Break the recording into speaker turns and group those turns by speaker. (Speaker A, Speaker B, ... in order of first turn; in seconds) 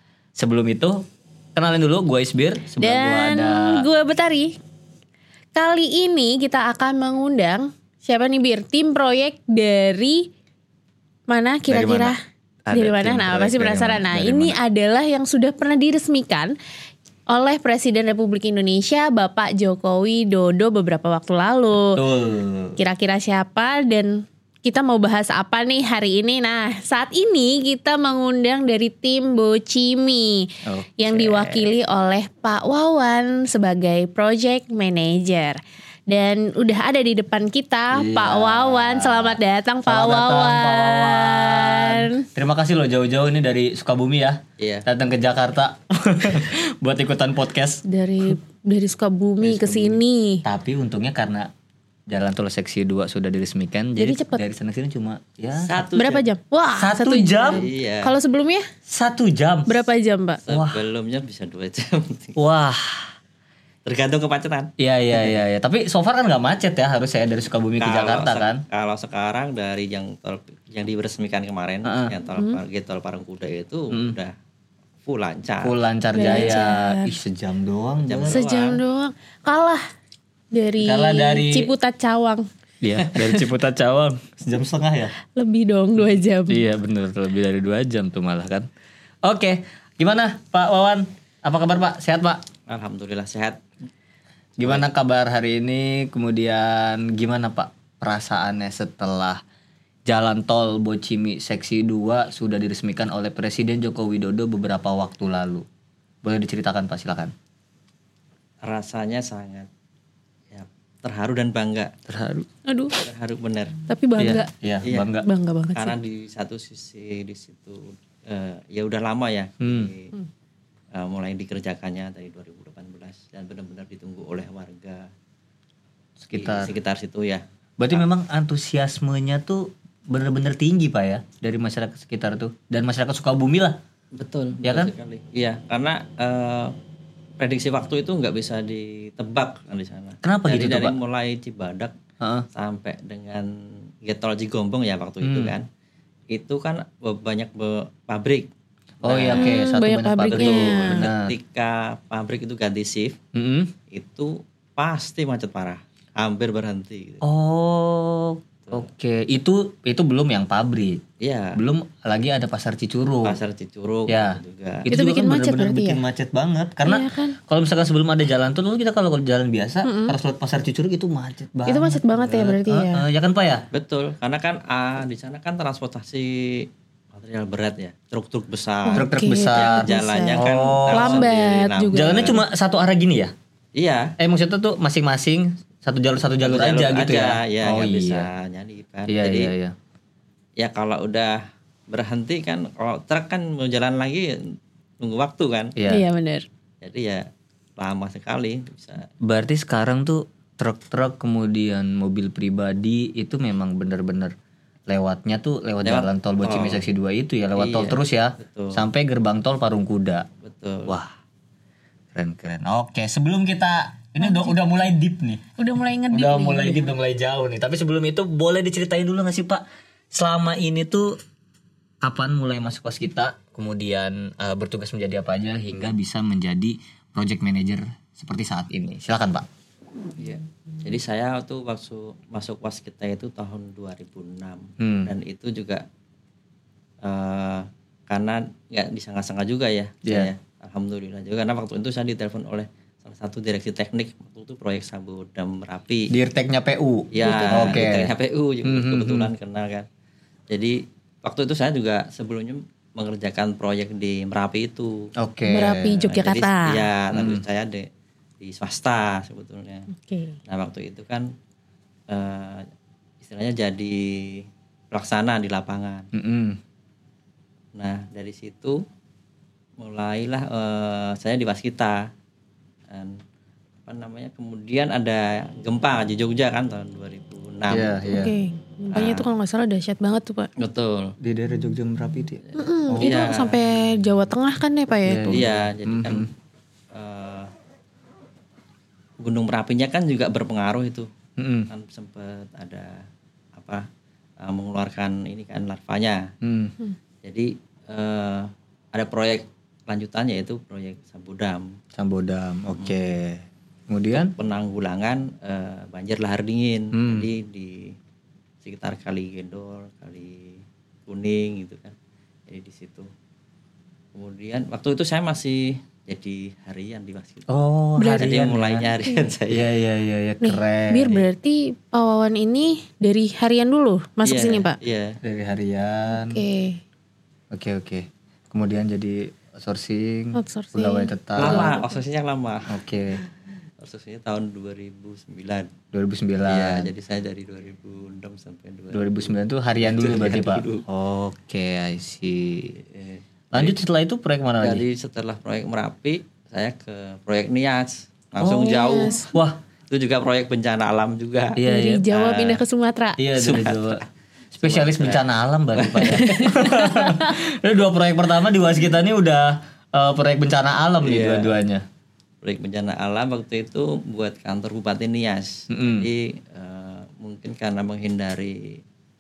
Speaker A: 0.4-1.0, 1.6-3.9, 11.7-12.2, 12.7-14.6, 21.8-22.8, 30.6-30.9, 37.9-47.8, 49.4-51.5, 52.1-55.8, 56.8-57.7, 58.9-59.9, 60.5-60.8, 62.4-63.1, 64.8-68.6, 71.8-72.1, 75.6-78.4, 80.8-81.7, 82.8-85.1, 86.5-88.7, 89.2-92.4, 94.6-99.4, 100.1-105.7, 106.2-107.3, 112.1-112.5, 114.2-115.3, 119.6-119.9, 126.2-126.7, 127.8-133.8, 134.6-134.9, 140.2-140.9, 142.2-142.5, 145.2-145.6, 149.0-151.3, 153.3-153.7, 157.2-161.0, 161.6-163.4, 164.1-173.7, 178.9-181.3, 181.9-183.3, 184.2-188.3, 189.1-189.7, 195.8-196.1, 199.2-204.3, 204.9-210.3, 212.1-215.4, 216.1-221.2, 222.0-229.5, 234.8-235.1, 240.1-240.3, 246.1-248.1, 248.7-249.3, 255.2-256.0, 257.1-257.4, 266.1-266.6, 277.7-278.3, 281.2-283.2, 285.1-286.3, 291.4-291.7, 296.4-296.8, 302.0-304.3, 306.9-307.3, 317.5-318.9, 319.5-321.2, 325.2-326.4, 327.5-331.7, 332.7-333.2, 335.9-336.9, 338.9-342.8, 343.5-344.9, 348.4-349.6, 351.6-352.1, 353.2-354.0, 354.6-361.8, 365.7-366.1
Speaker B: 2.8-4.6, 5.6-10.3, 11.3-12.2, 12.7-16.6, 17.3-22.0, 22.8-42.3, 47.9-50.4, 54.0-54.4, 55.9-58.7, 59.7-60.4, 76.1-77.1, 78.3-79.8, 80.5-82.5, 83.1-83.4, 85.3-86.6, 112.7-112.9, 113.9-114.5, 115.2-116.0, 149.3-151.1, 164.9-166.0, 166.8-167.4, 169.8-170.2, 171.7-173.1, 178.9-182.4, 195.9-196.4, 214.2-214.5, 215.6-216.8, 247.2-247.7, 255.5-256.9, 259.9-260.4, 278.1-280.5, 282.6-285.4, 318.0-318.4, 320.4-324.8, 326.1-326.8, 330.4-331.8, 348.6-349.3, 351.6-353.2, 356.1-357.4
Speaker C: 31.1-31.8, 44.6-44.9, 55.6-56.2, 57.5-58.1, 60.5-62.4, 63.9-65.4, 67.8-74.3, 75.0-75.7, 78.0-78.8, 92.7-93.6, 108.6-109.7, 110.5-111.9, 113.0-113.7, 115.7-120.1, 121.0-125.1, 126.3-128.0, 134.1-136.8, 137.4-141.9, 142.5-143.5, 144.0-145.7, 146.3-148.5, 149.0-149.6, 150.3-153.2, 153.9-157.2, 161.2-161.6, 163.2-164.9, 173.7-182.4, 183.8-184.2, 186.4-189.5, 190.6-195.7, 196.8-197.3, 197.8-199.1, 205.8-206.8, 207.6-208.9, 210.4-211.0, 230.2-235.8, 237.0-246.1, 247.1-249.9, 250.5-255.1, 256.1-257.9, 258.4-259.9, 260.5-261.3, 262.1-262.7, 263.2-266.1, 267.8-268.8, 269.8-272.1, 272.9-273.2, 273.9-278.1, 278.9-279.2, 280.6-281.1, 282.9-283.6, 285.3-286.3, 286.9-287.5, 289.2-291.1, 291.7-293.9, 294.4-296.3, 297.2-301.7, 304.2-307.9, 308.6-312.0, 312.5-313.1, 314.1-317.5, 318.2-319.7, 324.2-325.2, 331.4-332.8, 333.8-335.7, 336.5-340.9, 342.9-343.7, 344.6-349.2, 349.9-351.6, 352.1-352.6, 353.4-355.2, 355.8-356.5, 361.0-361.6, 362.4-368.8